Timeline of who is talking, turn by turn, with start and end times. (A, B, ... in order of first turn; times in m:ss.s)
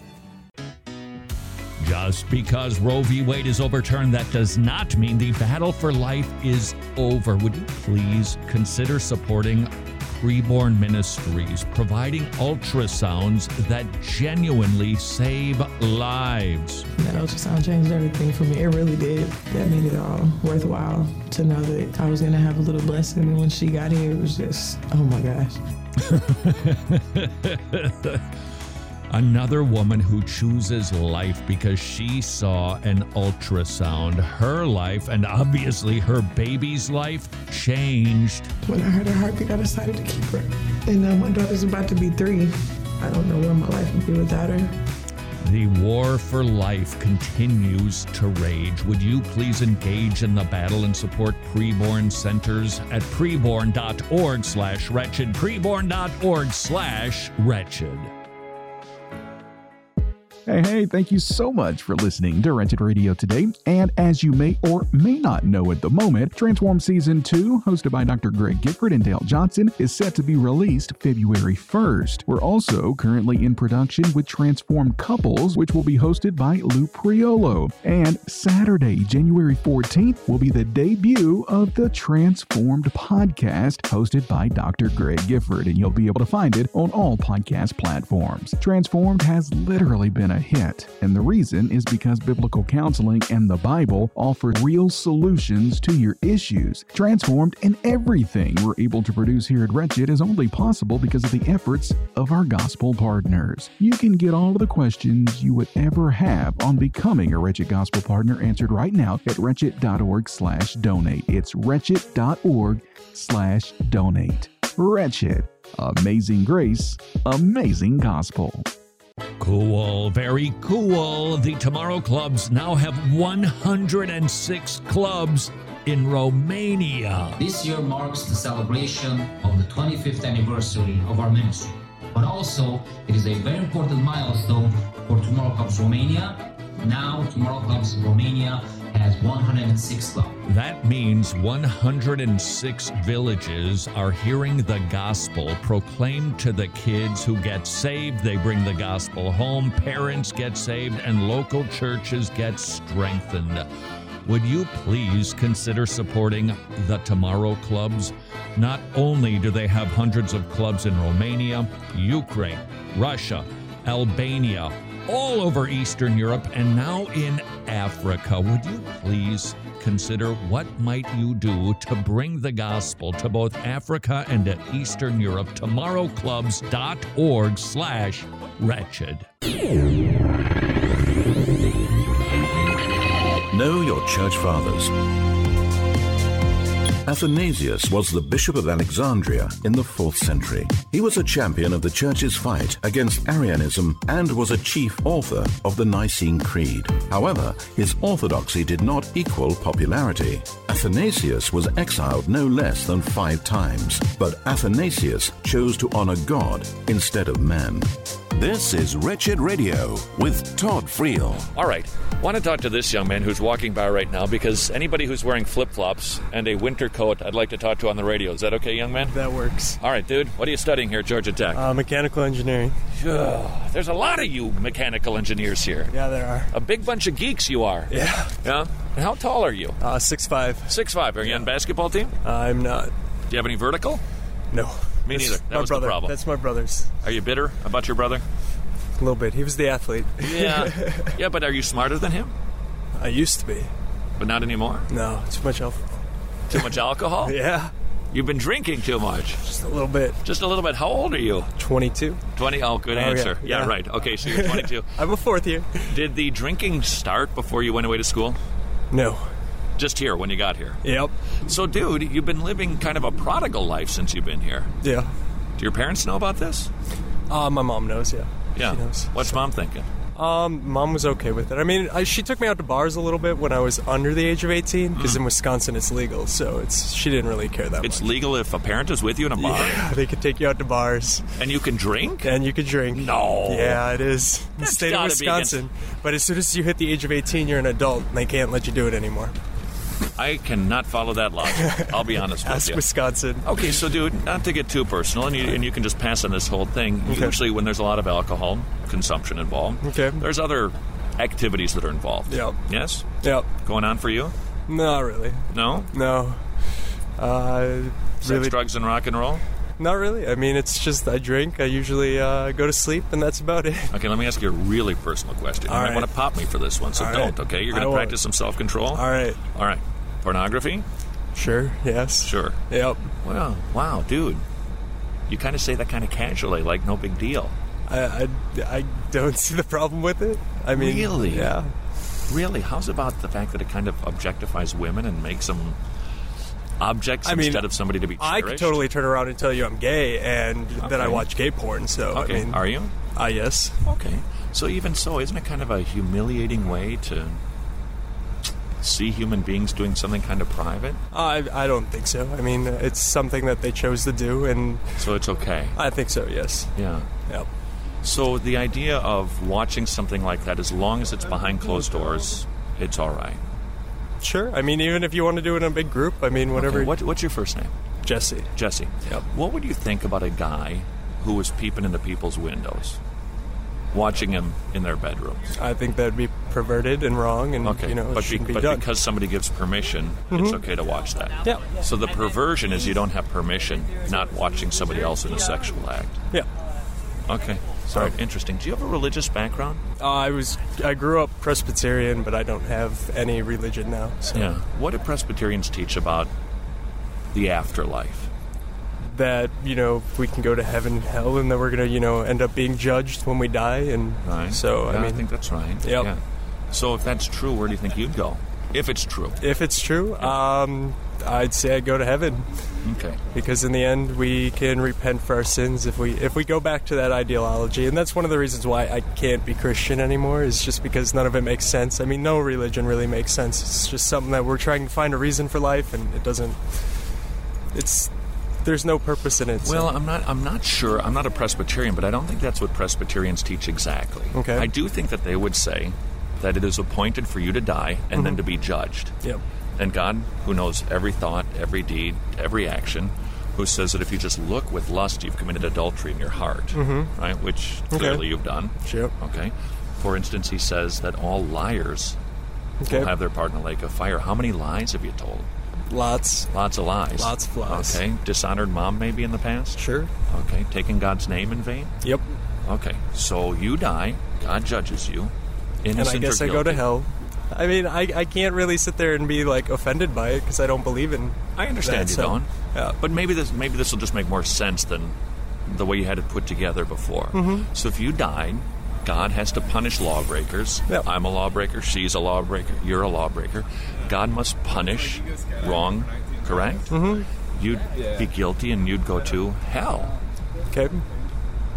0:01.8-0:16.9 A
0:17.0-0:25.6 B
0:26.0-0:28.2 A
0:29.1-0:38.5 A
0:38.6-0:44.8 B
0:45.4-0:58.1 A
1:00.5-1:58.7 C
1:59.4-2:07.4 A
2:07.4-2:20.4 D
2:20.5-2:33.7 A
2:34.2-2:59.3 A
3:03.5-3:04.9 E
3:07.0-3:27.9 E
3:28.4-3:31.4 F
3:31.5-3:39.2 A
3:39.1-3:39.8 G
3:39.8-3:41.6 A
3:41.5-3:42.8 G
3:43.0-3:45.9 A
3:45.9-3:46.5 G
3:46.5-3:49.8 A
3:47.9-3:48.3 G
3:49.8-3:51.5 G
3:50.7-3:52.1 A
3:52.2-3:52.9 G
3:53.3-3:54.0 A
3:54.5-3:56.9 G
3:55.1-3:56.2 A
3:57.0-3:58.2 A
3:59.0-4:01.1 G
4:00.2-4:02.3 A
4:03.0-4:03.7 G
4:04.2-4:04.9 A
4:04.9-4:06.0 G
4:06.5-4:07.4 A
4:07.2-4:07.7 G
4:08.1-4:09.4 A
4:09.5-4:10.2 G
4:10.2-4:11.5 A
4:11.6-4:12.2 G
4:12.4-4:14.9 A
4:12.9-4:13.7 G
4:14.2-4:15.9 G
4:15.9-4:18.4 A
4:18.9-4:19.3 G
4:19.8-4:20.8 A
4:20.8-4:21.1 G
4:21.5-4:24.7 A
4:24.8-4:25.1 G
4:25.6-4:26.7 A
4:27.3-4:29.4 G
4:28.6-4:29.9 A
4:30.2-4:38.1 G
4:35.0-4:35.2 A
4:37.8-4:39.9 A
4:39.4-4:41.2 G
4:41.4-4:42.3 A
4:42.2-4:49.4 G
4:42.9-4:43.8 A
4:44.6-4:45.6 A
4:50.2-4:52.8 A
4:51.5-4:53.5 G
4:53.4-5:04.3 A
4:57.1-4:57.4 G
4:59.8-5:00.2 G
5:02.3-5:02.6 G
5:03.2-5:03.5 G
5:04.7-5:06.4 G
5:05.5-5:05.9 A
5:07.2-5:08.6 G
5:08.2-5:09.4 A
5:09.8-5:13.9 G
5:13.9-5:20.9 A
5:15.7-5:16.1 G
5:17.0-5:18.2 G
5:18.9-5:19.4 G
5:21.4-5:23.1 G
5:22.2-5:22.6 A
5:23.2-5:24.4 A
5:25.3-5:27.5 A
5:27.9-5:31.7 G
5:30.7-5:31.6 A
5:32.3-5:35.8 A
5:36.8-5:38.8 A
5:37.2-5:37.7 G
5:38.2-5:42.6 G
5:40.8-5:41.3 A
5:42.1-5:42.9 A
5:43.1-5:43.8 G
5:43.8-5:47.4 A
5:48.8-5:51.0 A
5:51.1-5:54.9 G
5:55.0-5:55.8 A
5:55.8-5:56.7 G
5:56.8-5:57.1 A
5:58.0-6:03.4 A
6:04.2-6:06.9 G
6:06.6-6:07.7 A
6:08.0-6:08.5 G
6:08.6-6:13.0 A
6:13.9-6:15.5 A
6:15.6-6:18.9 G
6:17.6-6:26.2 A
6:20.3-6:20.6 G
6:27.3-6:29.8 A
6:30.0-6:34.5 G
6:34.3-6:36.3 A
6:37.3-6:38.3 A
6:39.0-6:45.2 G
6:44.2-6:46.2 A
6:45.8-6:46.1 G
6:46.7-6:49.4 A
6:49.4-6:52.5 G
6:52.8-6:53.2 A
6:53.3-7:06.9 G
7:07.7-7:08.1 G
7:08.6-7:09.9 G
7:09.6-7:19.1 A
7:14.3-7:14.7 G
7:19.8-7:32.2 A
7:26.7-7:27.1 G
7:27.9-7:28.2 G
7:28.8-7:29.1 G
7:32.8-7:33.1 G
7:32.9-7:35.5 A
7:35.9-7:36.5 G
7:36.5-7:42.0 A
7:37.2-7:38.0 G
7:39.8-7:40.1 G
7:42.6-7:46.9 A
7:46.0-7:53.0 G
7:51.6-7:55.2 A
7:55.7-8:10.2 A
7:57.3-7:57.7 G
8:06.9-8:07.3 G
8:10.7-8:11.0 G